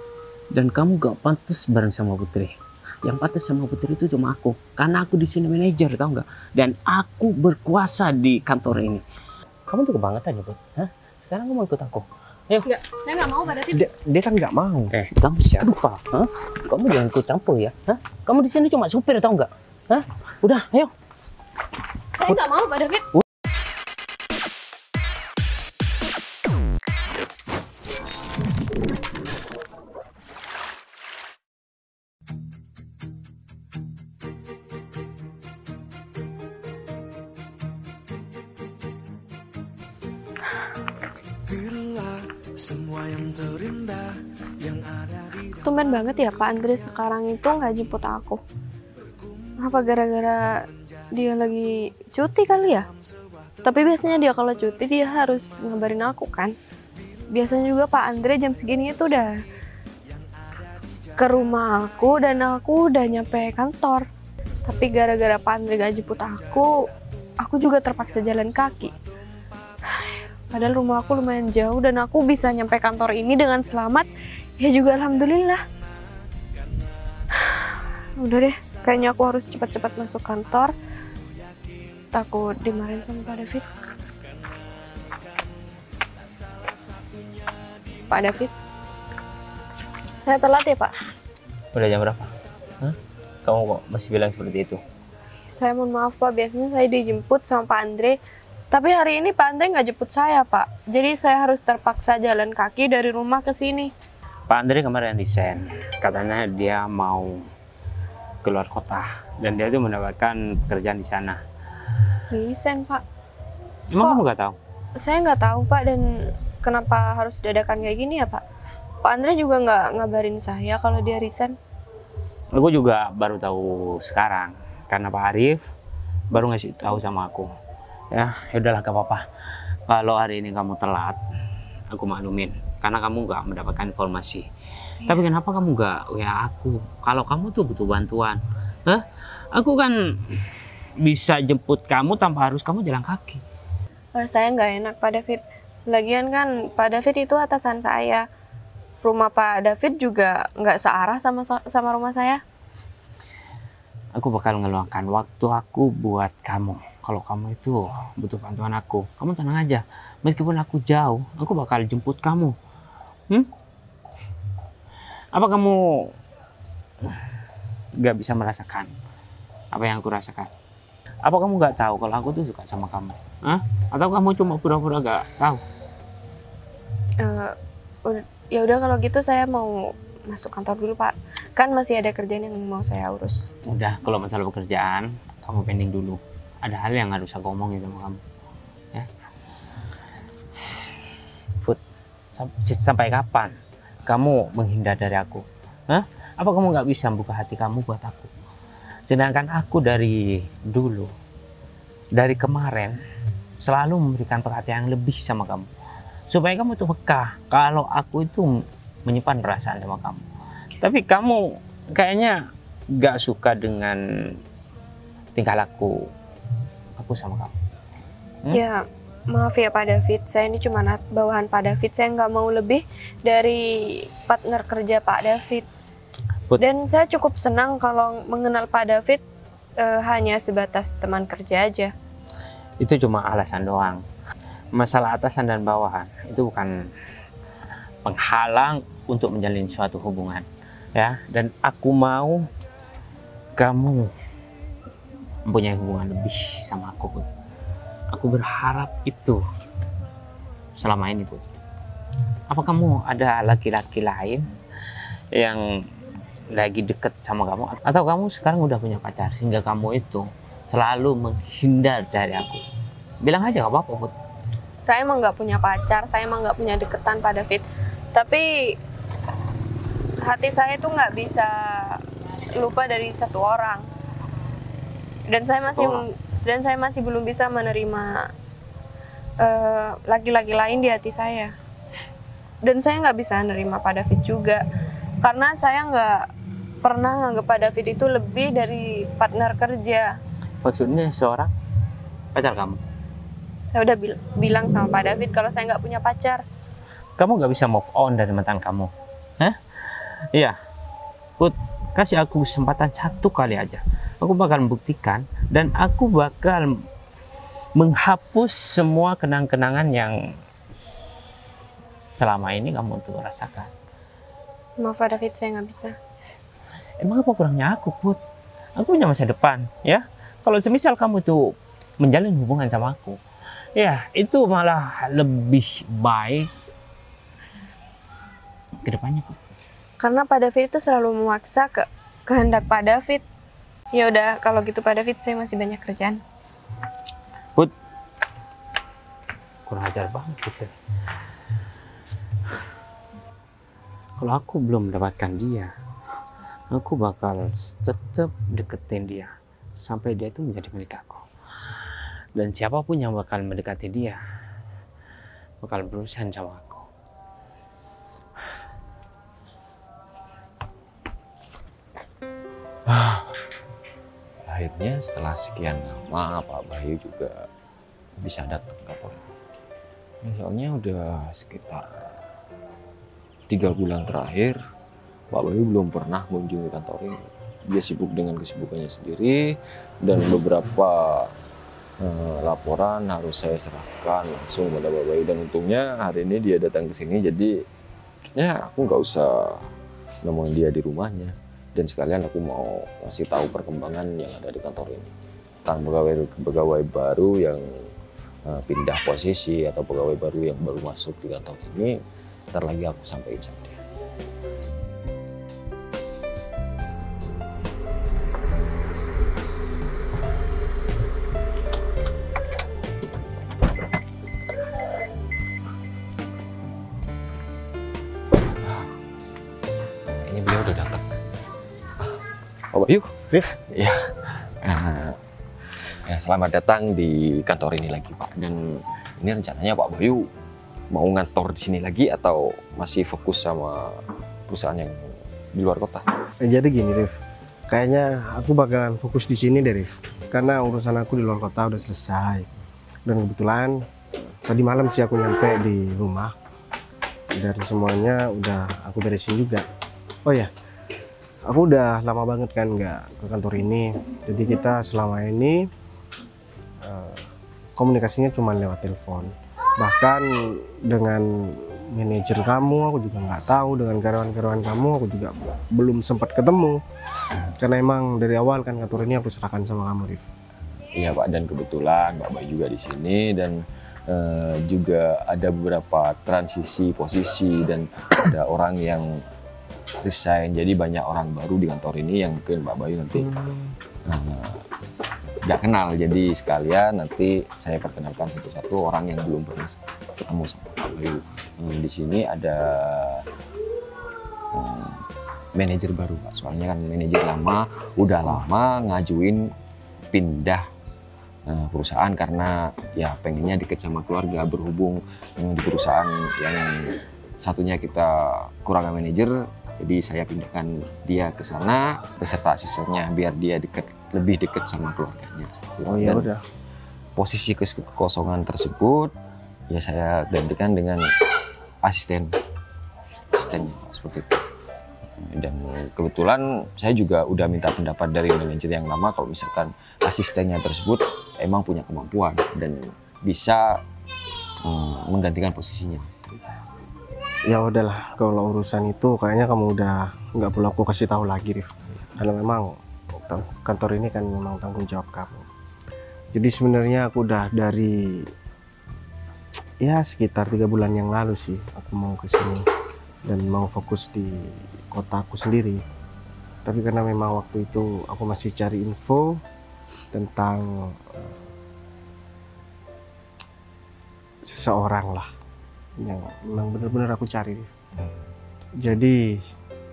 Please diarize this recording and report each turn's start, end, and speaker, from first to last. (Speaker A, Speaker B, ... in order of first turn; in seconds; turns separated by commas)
Speaker A: 0.5-9.0, Speaker A: 9.7-12.7, Speaker B: 12.6-13.8, Speaker C: 13.7-14.9, Speaker A: 14.9-20.9, Speaker B: 22.1-23.1, Speaker B: 45.6-48.4, Speaker B: 49.6-52.9, Speaker B: 53.6-56.5, Speaker B: 57.3-59.4, Speaker B: 61.2-64.1, Speaker B: 64.7-66.9, Speaker B: 67.4-68.9, Speaker B: 69.9-74.1, Speaker B: 74.6-75.6, Speaker B: 77.3-80.7, Speaker B: 82.1-83.7, Speaker B: 88.1-88.5, Speaker B: 90.2-90.9, Speaker A: 91.7-92.3, Speaker A: 92.8-94.8, Speaker B: 95.5-98.2, Speaker B: 98.7-103.9, Speaker A: 104.5-107.5, Speaker A: 108.4-111.4, Speaker B: 112.3-113.0, Speaker A: 113.9-114.6, Speaker B: 115.0-118.4, Speaker B: 119.0-121.5, Speaker A: 122.5-125.6, Speaker A: 126.3-127.5, Speaker A: 128.1-129.2, Speaker A: 129.9-131.2, Speaker A: 131.9-134.4, Speaker A: 135.1-140.4, Speaker A: 141.0-143.4, Speaker B: 144.2-148.2, Speaker B: 149.0-152.4, Speaker A: 154.1-162.6, Speaker A: 165.3-166.1, Speaker A: 168.0-168.9, Speaker A: 169.7-170.5, Speaker A: 171.2-175.6, Speaker B: 177.2-183.5, Speaker A: 183.7-188.2, Speaker A: 192.3-193.5, Speaker A: 194.1-198.3, Speaker A: 199.1-201.1, Speaker A: 202.1-203.0, Speaker A: 203.6-205.7, Speaker A: 206.3-210.2, Speaker A: 210.8-214.0, Speaker A: 215.3-216.1, Speaker A: 216.9-217.6, Speaker B: 218.5-225.7, Speaker B: 226.6-229.2, Speaker B: 229.8-231.9, Speaker A: 232.8-234.0, Speaker A: 234.7-236.7, Speaker A: 238.0-242.4, Speaker A: 243.6-244.1, Speaker A: 245.4-247.2, Speaker A: 248.1-249.4, Speaker A: 250.8-251.4, Speaker A: 252.5-254.4, Speaker A: 255.3-255.6, Speaker A: 256.5-262.6, Speaker A: 263.2-264.1, Speaker B: 264.8-268.8, Speaker B: 270.2-272.0, Speaker B: 272.5-273.9, Speaker B: 275.3-278.3, Speaker B: 279.4-281.5, Speaker B: 282.6-284.6, Speaker B: 285.2-286.3, Speaker B: 286.8-290.2, Speaker A: 290.6-291.5, Speaker A: 292.3-292.8, Speaker B: 293.7-296.4, Speaker A: 297.2-300.6, Speaker A: 301.4-306.8, Speaker A: 307.7-310.2, Speaker A: 310.8-311.4, Speaker A: 312.1-313.7, Speaker B: 314.8-316.0, Speaker A: 317.0-318.2, Speaker A: 318.8-323.2, Speaker A: 323.7-326.5, Speaker A: 328.8-329.4, Speaker B: 330.0-333.2, Speaker B: 333.9-336.2, Speaker A: 339.6-340.7, Speaker A: 344.2-345.7, Speaker A: 346.7-351.2, Speaker A: 352.4-354.2, Speaker A: 355.6-356.9, Speaker D: 362.9-363.4, Speaker D: 364.4-367.5, Speaker D: 368.2-369.2, Speaker D: 370.2-372.1, Speaker D: 373.5-374.6, Speaker D: 375.3-381.3, Speaker D: 382.0-387.6, Speaker D: 388.4-389.7, Speaker D: 390.2-395.1, Speaker D: 395.6-397.9, Speaker D: 398.4-402.0, Speaker D: 402.5-403.8, Speaker D: 418.6-418.9, Speaker D: 420.1-421.0, Speaker D: 422.7-425.2, Speaker D: 426.1-430.3, Speaker D: 430.9-436.1, Speaker C: 436.4-437.1, Speaker C: 437.7-442.5, Speaker C: 443.1-443.8, Speaker C: 444.4-446.3, Speaker C: 447.4-449.6, Speaker C: 450.2-450.5, Speaker C: 451.5-455.7, Speaker C: 456.8-466.8, Speaker C: 467.6-470.2, Speaker D: 470.9-479.2, Speaker D: 480.0-483.3, Speaker C: 483.2-483.6, Speaker D: 484.0-484.6, Speaker D: 485.4-493.2, Speaker D: 494.5-495.0, Speaker D: 495.6-499.5, Speaker D: 500.1-500.6, Speaker D: 501.4-516.3, Speaker C: 515.8-516.4, Speaker D: 517.1-519.1, Speaker D: 519.7-521.1, Speaker D: 521.8-522.4, Speaker D: 523.3-524.4, Speaker D: 525.2-533.8, Speaker D: 534.6-536.4, Speaker C: 537.5-545.5, Speaker C: 546.3-548.3, Speaker C: 549.8-552.6, Speaker C: 553.2-555.8, Speaker C: 556.6-559.4, Speaker C: 560.1-561.2, Speaker C: 564.4-565.3, Speaker C: 566.0-567.7, Speaker C: 568.8-569.4